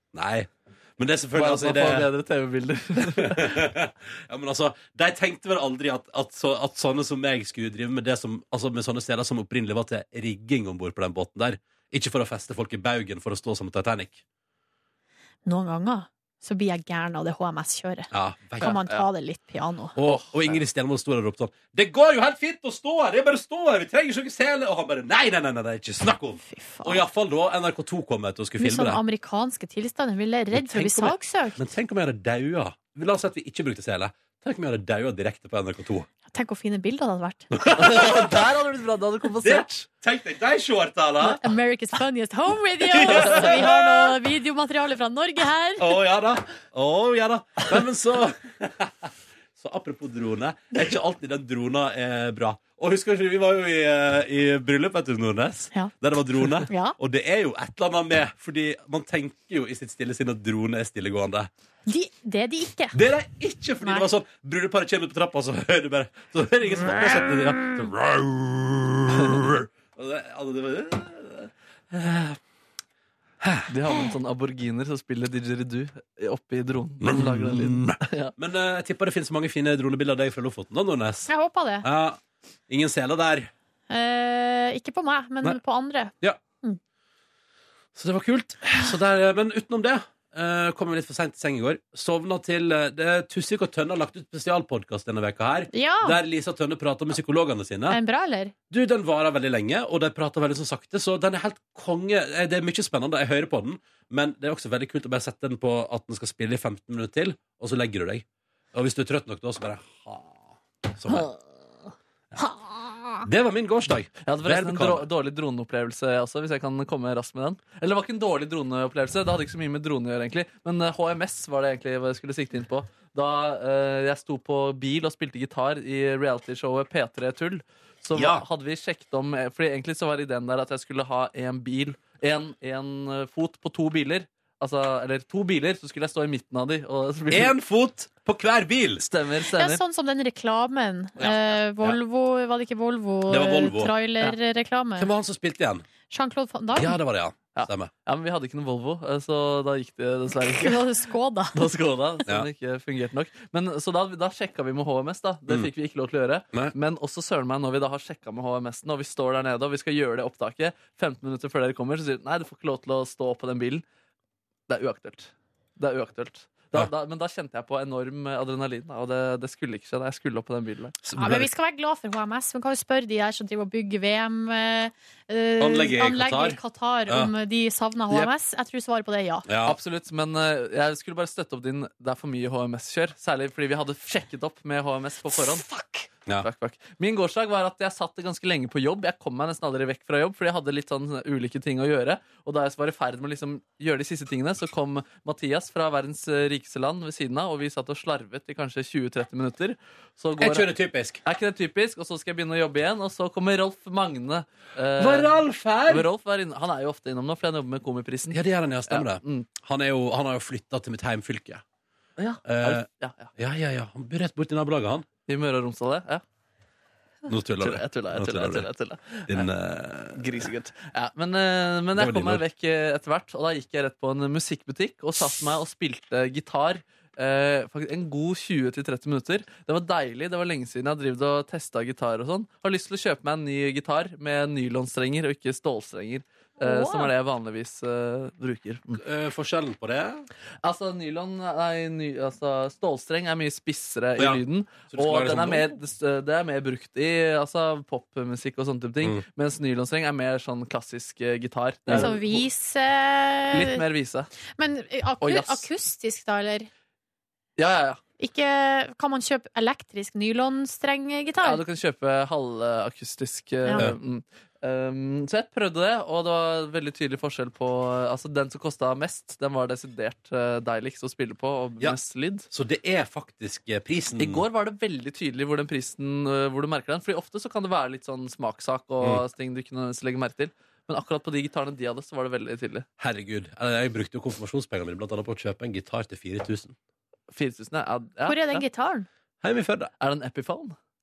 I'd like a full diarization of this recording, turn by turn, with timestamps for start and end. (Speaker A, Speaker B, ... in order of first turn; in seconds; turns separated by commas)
Speaker A: 0.1-2.1, Speaker B: 1.3-3.7, Speaker A: 3.1-14.2, Speaker C: 15.4-19.9, Speaker A: 18.1-18.7, Speaker B: 18.6-19.0, Speaker A: 19.9-29.0, Speaker B: 20.1-20.6, Speaker C: 26.5-27.0, Speaker C: 28.6-31.6, Speaker A: 30.5-36.1, Speaker C: 36.3-37.5, Speaker A: 37.5-38.5, Speaker B: 37.8-39.9, Speaker A: 39.4-41.4, Speaker C: 41.2-45.9, Speaker A: 42.8-44.1, Speaker A: 45.8-61.5, Speaker C: 56.6-57.0, Speaker C: 61.9-63.0, Speaker A: 62.9-72.4, Speaker C: 63.8-64.1, Speaker B: 69.1-69.5, Speaker A: 73.4-73.7, Speaker B: 73.7-78.3, Speaker A: 77.0-81.3, Speaker C: 81.3-81.9, Speaker A: 81.8-83.5, Speaker C: 83.9-86.8, Speaker A: 87.9-98.0, Speaker C: 95.7-96.2, Speaker C: 97.9-98.5, Speaker A: 98.7-111.3, Speaker B: 111.1-111.4, Speaker C: 112.4-113.2, Speaker A: 113.2-115.1, Speaker B: 114.2-137.5, Speaker A: 128.1-128.4, Speaker A: 137.3-139.0, Speaker B: 139.0-139.8, Speaker C: 139.6-145.1, Speaker A: 143.3-143.9, Speaker A: 145.0-145.8, Speaker C: 146.1-146.9, Speaker A: 146.8-147.9, Speaker B: 147.5-150.8, Speaker C: 150.6-151.5, Speaker B: 151.5-163.8, Speaker B: 164.7-171.0, Speaker A: 171.0-171.5, Speaker C: 171.2-179.4, Speaker A: 175.6-177.3, Speaker A: 179.5-179.8, Speaker B: 179.6-185.7, Speaker C: 185.7-186.0, Speaker B: 186.4-200.7, Speaker A: 200.4-201.2, Speaker B: 201.2-209.5, Speaker A: 205.0-206.1, Speaker A: 208.3-211.6, Speaker B: 212.2-213.3, Speaker A: 212.4-212.8, Speaker A: 213.4-215.1, Speaker B: 215.3-216.2, Speaker A: 217.3-218.7, Speaker B: 217.6-219.5, Speaker A: 219.3-220.5, Speaker B: 220.1-239.0, Speaker A: 221.9-222.4, Speaker C: 236.6-237.1, Speaker A: 239.0-240.3, Speaker B: 240.6-252.4, Speaker A: 244.2-245.7, Speaker A: 251.9-252.1, Speaker C: 251.9-253.8, Speaker B: 253.5-254.3, Speaker C: 254.6-256.7, Speaker B: 255.2-255.7, Speaker B: 257.6-258.0, Speaker C: 258.2-261.6, Speaker B: 261.4-272.5, Speaker C: 263.6-263.9, Speaker A: 272.5-274.4, Speaker B: 274.2-282.9, Speaker A: 283.0-286.8, Speaker B: 287.3-288.6, Speaker C: 288.3-289.1, Speaker A: 289.4-289.9, Speaker B: 290.0-290.8